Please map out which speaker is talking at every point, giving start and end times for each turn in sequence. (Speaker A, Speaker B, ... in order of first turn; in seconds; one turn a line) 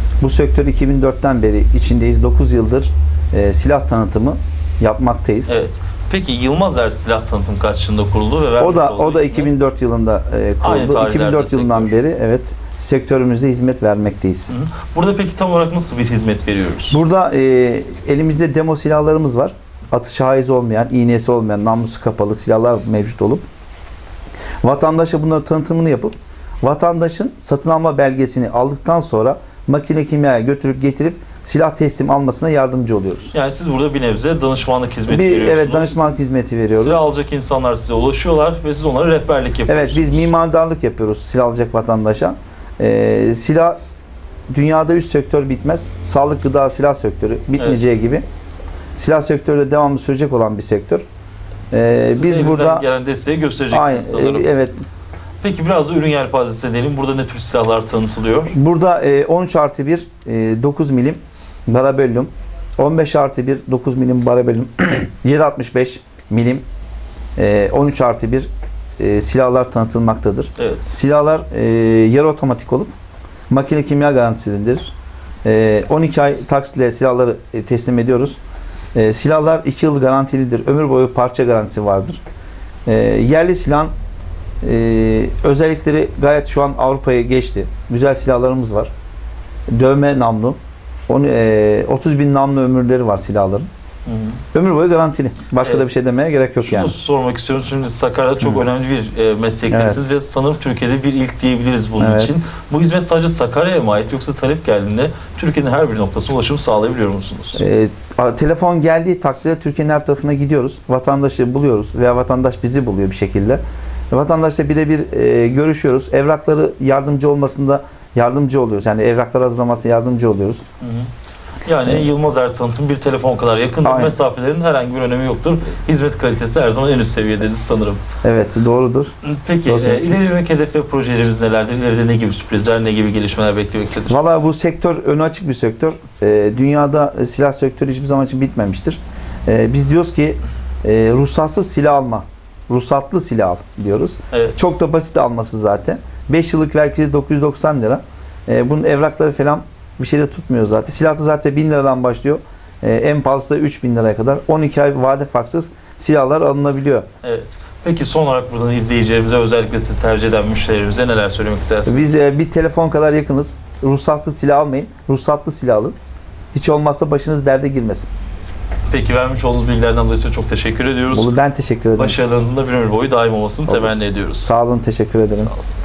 Speaker A: 0.2-5.6
Speaker B: 5.5-9.5
Speaker A: 8.6-14.6
Speaker B: 10.6-11.9
Speaker B: 14.5-17.0
Speaker A: 16.9-23.4
Speaker A: 24.6-33.3
Speaker B: 33.3-35.9
Speaker A: 35.1-37.0
Speaker B: 36.7-40.3
Speaker A: 39.7-43.8
Speaker A: 44.5-48.2
Speaker B: 47.6-47.9
Speaker A: 49.0-51.0
Speaker A: 51.7-52.8
Speaker B: 52.1-54.6
Speaker A: 53.7-54.8
Speaker B: 55.4-58.5
Speaker A: 58.5-66.6
Speaker A: 67.3-72.9
Speaker B: 70.6-70.9
Speaker A: 73.5-74.9
Speaker A: 75.4-78.4
Speaker A: 78.9-82.2
Speaker A: 82.8-83.9
Speaker A: 84.6-88.9
Speaker A: 89.7-90.6
Speaker A: 91.1-93.7
Speaker B: 94.0-94.4
Speaker A: 94.5-96.9
Speaker B: 95.6-95.9
Speaker B: 96.6-107.6
Speaker A: 99.7-100.0
Speaker A: 102.0-102.4
Speaker A: 107.5-120.6
Speaker B: 120.8-121.1
Speaker B: 121.6-128.0
Speaker A: 123.8-124.2
Speaker A: 128.2-129.1
Speaker B: 129.2-134.2
Speaker A: 129.6-130.2
Speaker A: 134.1-157.1
Speaker B: 144.3-144.7
Speaker B: 157.2-162.1
Speaker A: 161.8-165.9
Speaker A: 166.5-168.1
Speaker B: 168.9-171.3
Speaker A: 171.1-172.2
Speaker B: 172.0-174.5
Speaker A: 173.7-175.5
Speaker B: 175.3-175.6